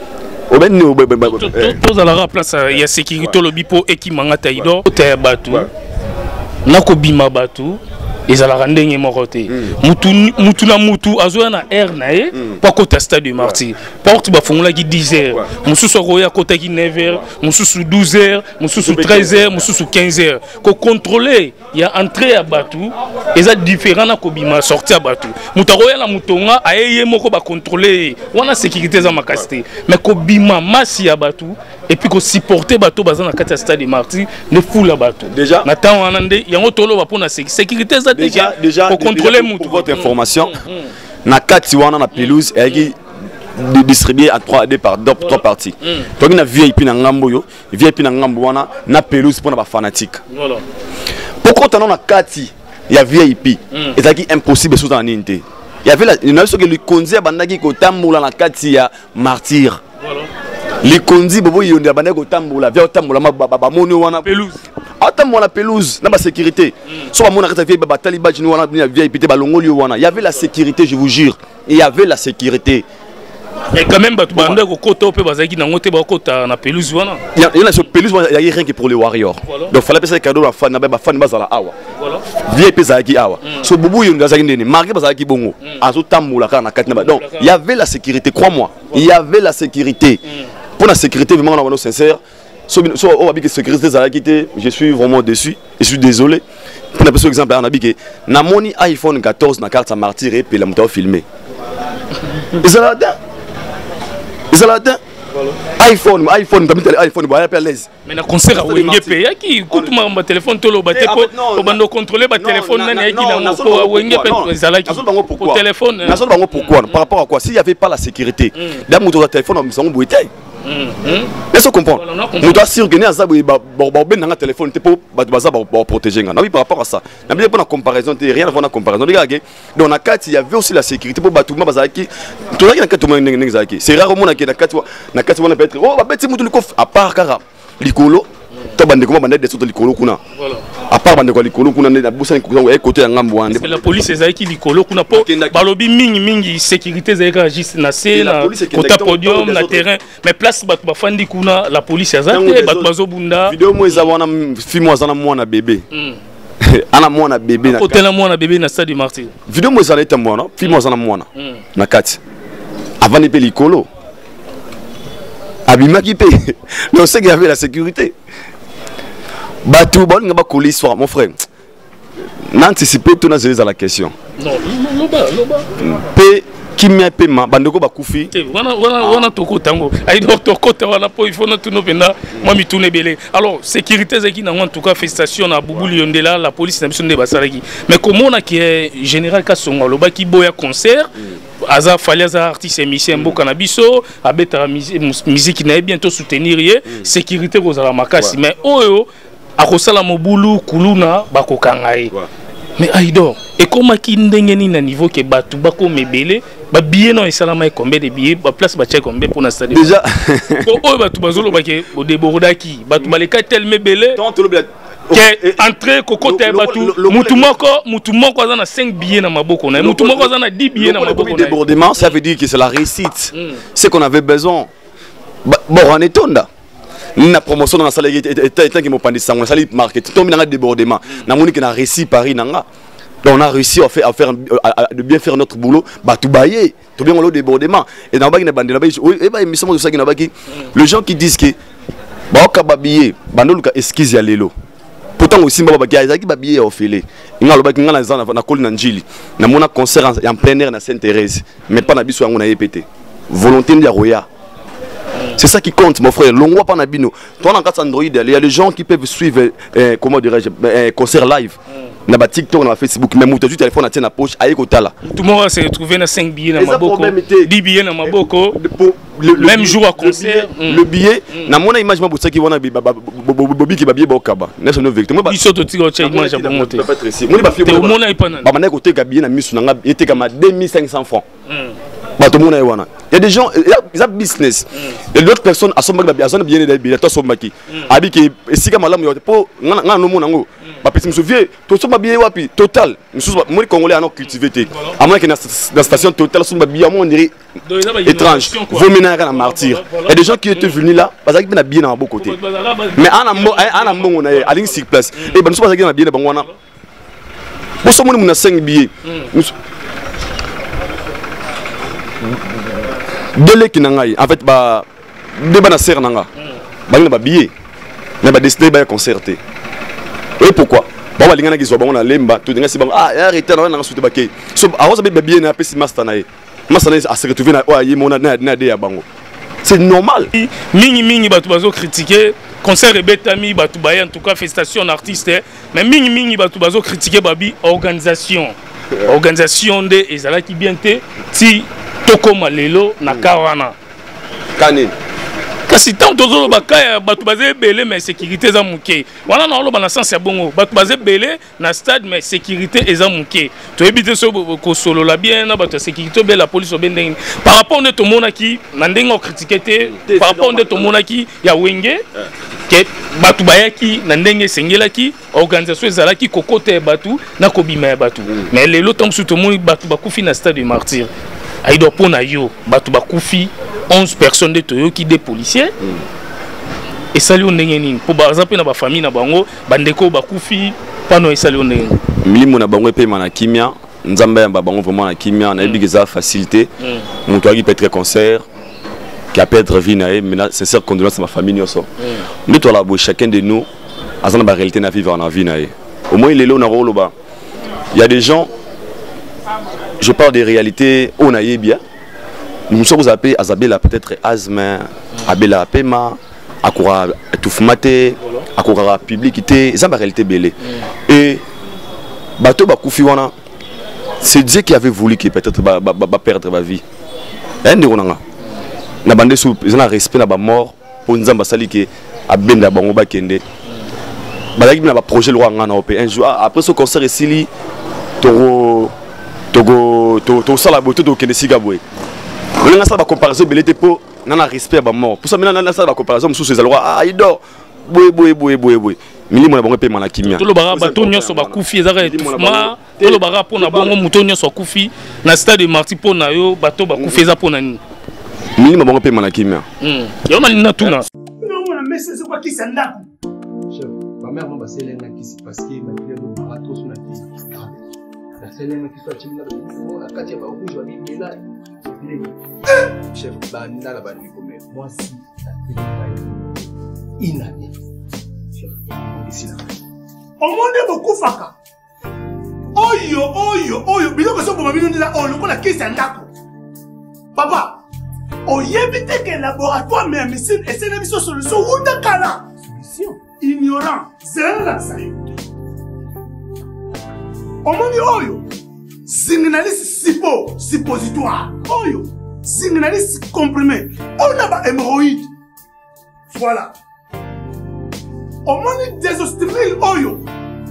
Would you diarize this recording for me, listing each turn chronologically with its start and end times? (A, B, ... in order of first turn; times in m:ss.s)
0:00.5-0:01.8 A
0:01.2-0:05.7 B
0:06.6-0:40.9 B
0:09.5-0:09.8 A
0:12.3-0:12.6 A
0:18.8-0:19.7 A
0:35.3-0:35.7 A
0:38.1-0:40.5 A
0:41.2-0:43.0 A
0:42.2-0:42.8 B
0:43.5-0:50.2 A
0:45.2-0:46.1 B
0:50.3-0:50.6 B
0:51.4-0:59.8 A
1:00.0-1:00.3 B
1:00.8-1:04.3 A
1:04.2-1:04.6 B
1:05.0-1:12.8 A
1:13.7-1:17.2 B
1:17.3-1:21.7 A
1:19.4-1:19.7 B
1:22.0-1:22.2 B
1:22.4-1:30.2 A
1:26.9-1:27.5 B
1:30.8-1:36.4 A
1:36.9-1:41.2 A
1:42.6-1:43.2 A
1:44.5-1:45.0 A
1:45.3-1:45.6 B
1:45.8-1:47.9 A
1:48.0-1:56.8 B
1:48.5-1:50.0 A
1:50.9-1:51.8 A
1:52.4-2:00.3 A
1:58.6-1:58.8 B
2:00.6-2:01.4 B
2:01.5-2:20.2 A
2:02.0-2:02.6 B
2:20.4-2:20.6 B
2:20.9-2:24.1 A
2:23.5-2:34.0 B
2:25.1-2:25.6 A
2:28.1-2:29.8 A
2:32.3-2:32.9 A
2:33.4-2:35.8 A
2:35.9-2:36.2 B
2:36.6-2:38.0 A
2:37.6-2:39.3 B
2:39.5-2:42.2 A
2:43.0-2:43.9 A
2:45.7-2:48.1 A
2:49.6-2:51.4 A
2:52.5-2:54.1 A
2:54.4-2:55.7 B
2:55.8-2:58.3 A
2:58.3-3:19.1 B
2:59.0-2:59.3 A
3:13.1-3:13.4 A
3:19.6-3:22.1 B
3:22.8-3:29.9 B
3:29.7-3:30.8 A
3:30.6-3:34.2 B
3:34.2-3:35.6 A
3:35.1-3:42.1 B
3:36.2-3:37.6 A
3:39.8-3:44.7 A
3:45.4-3:46.5 A
3:47.2-3:52.6 A
3:53.2-4:01.5 A
4:02.3-4:04.5 A
4:05.2-4:14.2 A
4:15.4-4:25.0 A
4:25.0-4:28.6 B
4:26.6-4:27.5 A
4:28.0-4:35.4 A
4:29.3-4:30.8 B
4:35.3-4:36.8 B
4:36.0-4:41.2 A
4:37.6-4:38.5 B
4:41.5-4:41.8 B
4:42.2-4:57.3 A
4:54.7-4:55.0 B
4:57.6-5:00.8 B
4:58.0-5:02.4 A
5:02.2-5:05.4 B
5:02.9-5:06.5 A
5:07.8-5:09.5 A
5:13.4-5:14.8 A
5:15.4-5:16.3 A
5:16.9-5:17.5 A
5:18.2-5:19.4 A
5:20.4-5:29.0 A
5:29.6-5:30.3 A
5:30.3-5:38.5 B
5:39.0-5:43.7 B
5:44.6-5:44.9 A
5:45.7-6:02.0 B
5:59.9-6:00.9 A
6:02.7-6:11.1 B
6:11.6-6:15.7 B
6:17.1-6:22.0 B
6:22.2-6:26.7 A
6:27.2-6:28.4 A
6:29.3-6:31.9 A
6:32.5-6:33.6 A
6:34.2-6:37.1 A
6:37.9-6:38.5 A
6:40.0-6:41.8 A
6:42.7-6:51.4 A
6:52.4-6:53.3 A
6:54.2-6:56.8 A
6:57.6-6:58.2 A
6:59.0-7:03.4 A
7:04.6-7:07.5 A
7:08.2-7:08.9 A
7:09.5-7:11.8 A
7:12.6-7:23.9 A
7:20.2-7:27.8 B
7:26.9-7:27.2 A
7:28.6-7:29.6 A
7:29.8-7:31.0 B
7:31.4-7:33.0 C
7:33.7-7:37.7 D
7:38.4-7:42.3 D
7:43.1-7:46.7 D
7:47.2-7:47.7 D
7:48.6-7:49.7 D
7:50.4-7:51.5 C
7:52.8-7:56.3 C
7:57.4-7:57.7 C
7:58.5-8:02.4 C
8:02.7-8:03.2 D
8:03.4-8:05.0 C
8:07.6-8:08.4 C
8:09.1-8:15.3 C
8:16.3-8:16.7 C
8:18.4-8:20.2 C